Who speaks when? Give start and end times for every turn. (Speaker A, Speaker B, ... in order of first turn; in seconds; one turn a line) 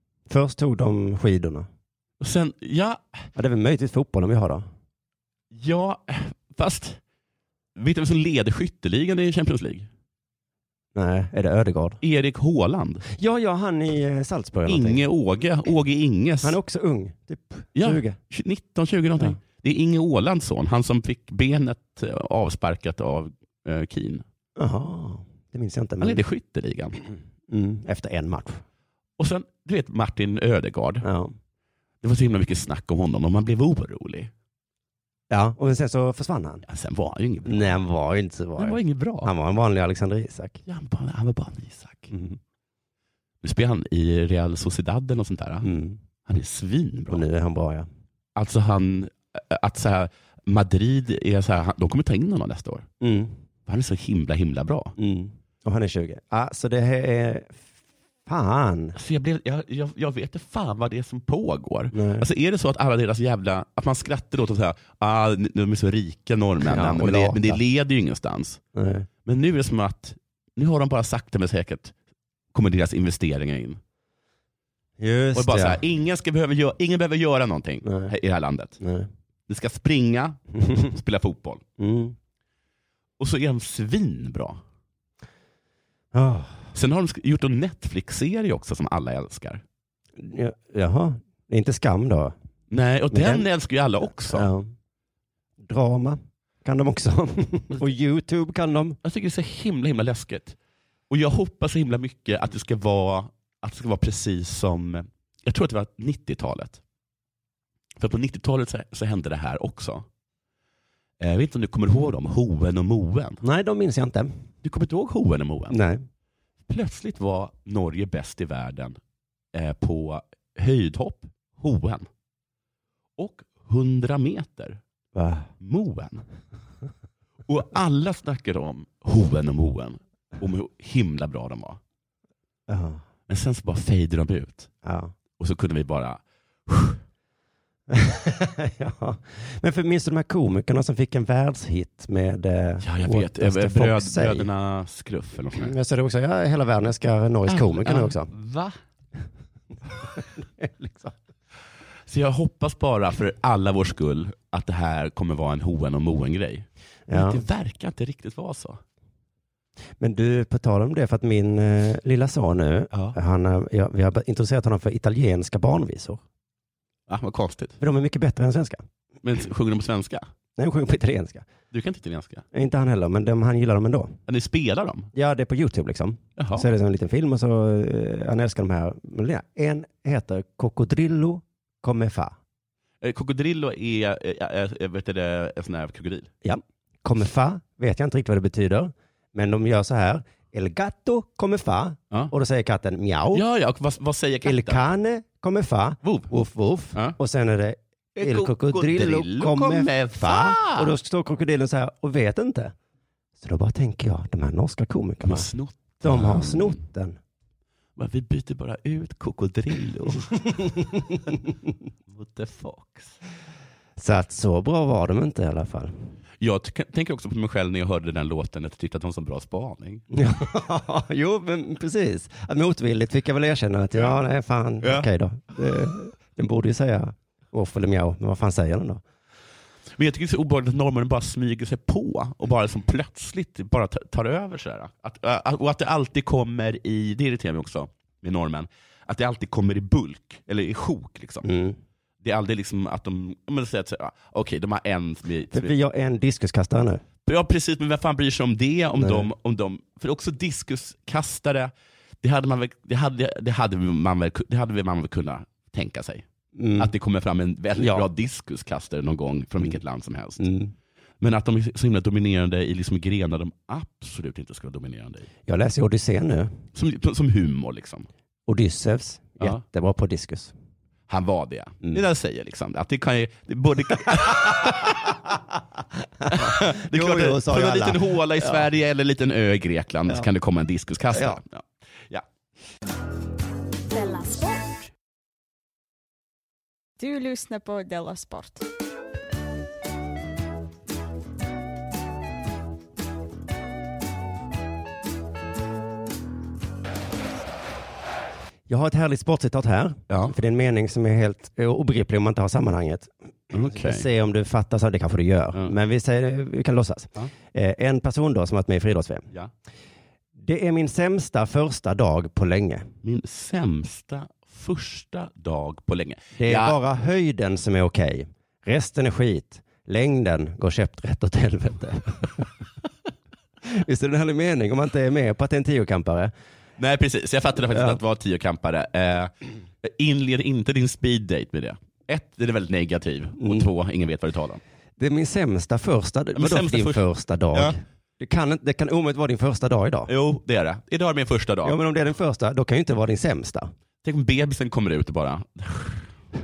Speaker A: 0.3-1.7
Speaker B: 2.2-3.2
Speaker A: 3.4-4.6
Speaker B: 5.5-7.0
Speaker B: 7.8-9.9
Speaker A: 10.9-12.0
Speaker B: 12.0-13.1
Speaker A: 13.1-15.0
Speaker B: 14.7-16.6
Speaker A: 16.4-18.2
Speaker B: 17.8-24.2
Speaker A: 24.6-26.2
Speaker B: 26.0-27.0
Speaker A: 27.5-28.6
Speaker B: 29.2-31.1
Speaker A: 31.0-31.4
Speaker B: 32.0-34.3
Speaker A: 35.3-36.6
Speaker B: 36.7-37.8
Speaker A: 37.5-40.6
Speaker B: 38.6-39.3
Speaker B: 40.7-42.1
Speaker A: 42.1-42.4
Speaker B: 43.4-45.7
Speaker A: 45.6-46.0
Speaker B: 46.3-47.2
Speaker A: 47.1-47.9
Speaker B: 48.4-52.9
Speaker A: 53.0-53.3
Speaker B: 53.7-54.9
Speaker A: 55.0-57.6
Speaker A: 58.3-59.0
Speaker B: 59.0-68.6
Speaker A: 61.9-62.3
Speaker A: 66.6-67.6
Speaker A: 68.8-69.1
Speaker B: 69.3-71.9
Speaker B: 72.5-73.8
Speaker A: 75.0-75.8
Speaker B: 75.3-78.8
Speaker A: 77.8-78.1
Speaker A: 78.8-79.1
Speaker B: 79.5-81.6
Speaker A: 81.8-82.2
Speaker B: 83.2-84.6
Speaker A: 86.1-86.6
Speaker B: 86.8-89.6
Speaker A: 90.2-92.3
Speaker B: 92.7-94.5
Speaker A: 93.1-93.5
Speaker A: 94.3-94.7
Speaker A: 95.6-99.0
Speaker B: 99.0-100.6
Speaker B: 101.1-106.8
Speaker B: 108.0-110.0
Speaker B: 111.2-113.4
Speaker A: 113.4-114.3
Speaker B: 114.6-115.8
Speaker A: 115.7-116.0
Speaker B: 116.7-119.0
Speaker B: 119.5-122.1
Speaker B: 123.2-124.8
Speaker A: 125.2-125.5
Speaker B: 125.6-126.2
Speaker B: 127.5-131.8
Speaker A: 132.7-133.0
Speaker B: 133.3-134.7
Speaker A: 134.8-135.1
Speaker B: 135.4-137.0
Speaker A: 137.9-144.5
Speaker B: 142.8-145.7
Speaker A: 145.6-148.3
Speaker B: 147.5-148.8
Speaker A: 150.2-151.1
Speaker B: 152.1-158.8
Speaker A: 157.1-157.4
Speaker A: 160.0-166.2
Speaker B: 167.1-167.8
Speaker A: 167.8-168.8
Speaker B: 169.2-170.2
Speaker A: 170.6-171.5
Speaker B: 171.7-172.4
Speaker A: 172.5-174.2
Speaker B: 174.3-175.1
Speaker A: 175.1-182.4
Speaker B: 176.4-176.7
Speaker B: 183.0-186.3
Speaker A: 186.4-193.4
Speaker B: 193.3-194.8
Speaker A: 194.4-202.7
Speaker B: 196.0-196.3
Speaker B: 198.2-200.9
Speaker A: 203.4-205.5
Speaker B: 205.2-206.8
Speaker A: 206.0-207.2
Speaker B: 208.0-210.6
Speaker B: 212.1-213.2
Speaker A: 214.0-215.9
Speaker B: 216.4-220.0
Speaker A: 220.1-229.0
Speaker B: 230.0-241.5
Speaker A: 241.4-241.8
Speaker B: 242.2-245.8
Speaker A: 245.5-247.0
Speaker B: 247.3-256.2
Speaker A: 249.0-249.3
Speaker A: 256.6-256.9
Speaker B: 256.8-260.5
Speaker A: 257.8-258.1
Speaker A: 260.4-260.7
Speaker B: 261.2-265.3
Speaker A: 265.5-266.5
Speaker B: 266.8-268.1
Speaker A: 268.5-270.5
Speaker B: 271.1-275.2
Speaker A: 276.2-278.7
Speaker B: 276.3-282.2
Speaker A: 281.1-281.4
Speaker C: 283.9-284.9
Speaker C: 287.0-288.6
Speaker A: 298.7-309.3
Speaker B: 303.5-304.1
Speaker A: 310.4-312.9
Speaker B: 313.0-316.8
Speaker A: 316.4-322.4
Speaker A: 323.6-326.3
Speaker B: 326.8-329.3
Speaker A: 327.7-328.0
Speaker B: 329.8-334.6
Speaker A: 333.4-333.7
Speaker A: 335.0-340.1
Speaker B: 336.4-337.7
Speaker B: 340.1-341.8
Speaker A: 341.6-343.7
Speaker B: 344.0-346.1